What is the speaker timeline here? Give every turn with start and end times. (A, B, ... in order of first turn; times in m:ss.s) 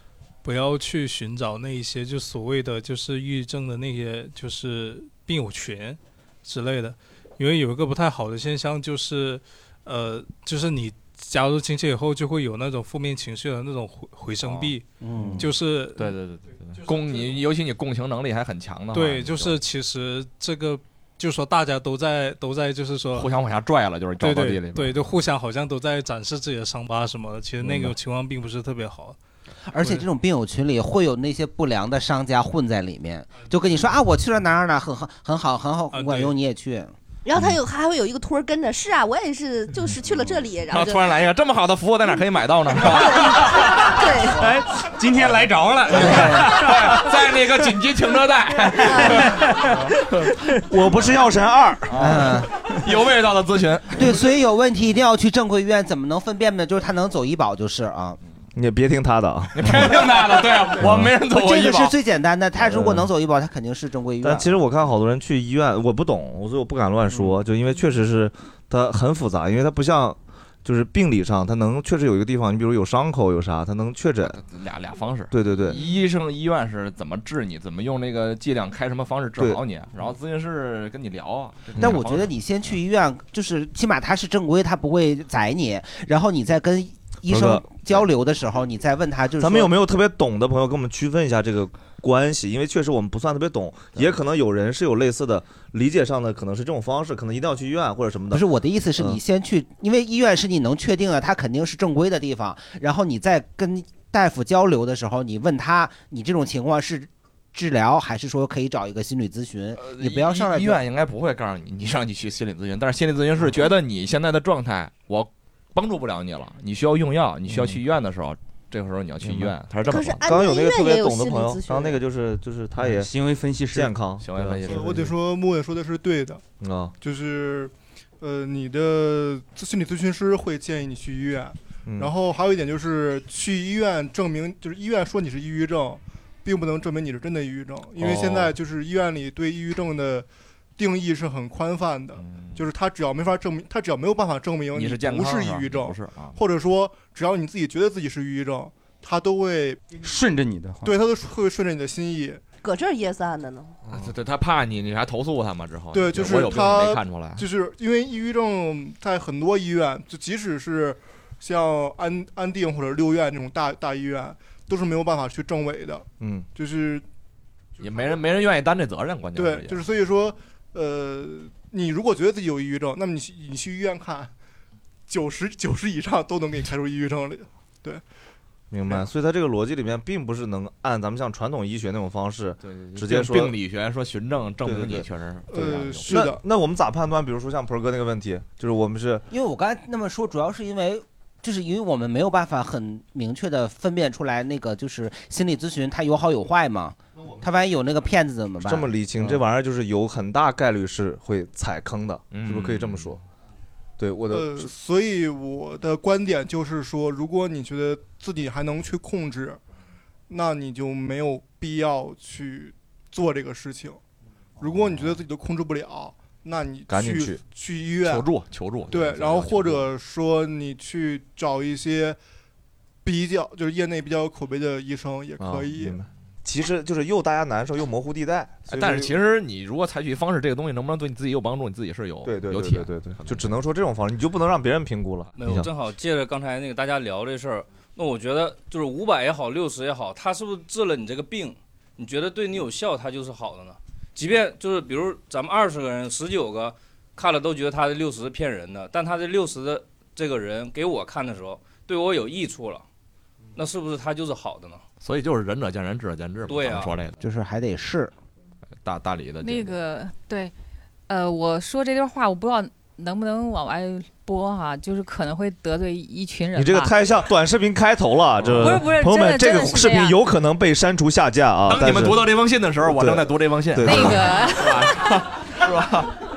0:00.4-0:14.9 A
0:14.4-0:14.7 B
0:15.0-0:15.5 C
0:15.4-0:16.1 A
0:15.9-0:19.6 B
0:18.9-0:23.3 A
0:23.1-0:25.0 B
0:24.2-0:29.2 A
0:29.6-0:36.9 C
0:35.9-0:36.3 A
0:37.2-0:41.1 D
0:40.7-0:43.7 B
0:42.8-0:44.5 D
0:44.4-0:46.6 E
0:45.9-0:49.5 B
0:45.9-0:46.5 C
0:48.8-0:49.2 D
0:50.7-0:52.3 F
0:51.9-0:54.1 B
0:51.9-0:52.5 C
0:54.0-0:58.2 C
0:58.5-1:00.0 F
0:59.5-1:01.9 B
1:00.8-1:01.1 F
1:01.1-1:04.5 C
1:02.6-1:03.1 F
1:04.2-1:14.4 F
1:14.2-1:22.3 B
1:15.3-1:15.9 F
1:21.8-1:29.7 C
1:27.3-1:28.0 F
1:29.4-1:38.4 F
1:38.3-1:50.8 C
1:49.8-2:00.2 B
1:59.8-2:02.0 D
2:00.1-2:03.1 F
2:02.8-2:04.0 E
2:03.7-2:05.0 F
2:04.2-2:05.1 B
2:04.7-2:06.4 G
2:06.6-2:06.9 F
2:07.0-2:29.8 G
2:11.8-2:12.1 F
2:18.0-2:18.5 B
2:22.1-2:22.6 B
2:24.7-2:26.4 B
2:30.0-2:30.9 E
2:30.8-2:32.4 G
2:32.6-2:33.7 D
2:33.8-2:37.4 B
2:35.9-2:47.0 G
2:46.2-2:46.5 F
2:47.8-2:49.8 B
2:49.3-2:54.3 G
2:55.1-2:58.0 G
2:58.7-3:03.5 F
3:02.6-3:06.1 B
3:04.6-3:05.0 F
3:05.5-3:06.4 G
3:06.1-3:09.2 F
3:09.3-3:19.4 C
3:18.6-3:23.2 F
3:22.3-3:23.1 B
3:24.0-3:24.7 F
3:24.3-3:29.6 G
3:30.3-3:34.0 G
3:34.6-3:38.3 G
3:36.9-3:37.4 F
3:38.0-3:39.8 B
3:38.9-3:42.2 G
3:43.0-3:46.0 G
3:45.4-3:49.1 F
3:48.7-3:53.5 B
3:52.2-3:55.7 F
3:55.4-4:12.8 H
4:13.6-4:14.8 H
4:15.0-4:17.1 B
4:16.5-4:16.9 H
4:17.2-4:18.1 C
4:18.8-4:19.7 B
4:19.4-4:20.5 I
4:21.1-4:26.9 I
4:26.5-4:34.3 F
4:28.4-4:28.8 B
4:28.6-4:30.2 I
4:31.7-4:36.1 B
4:33.8-4:35.0 I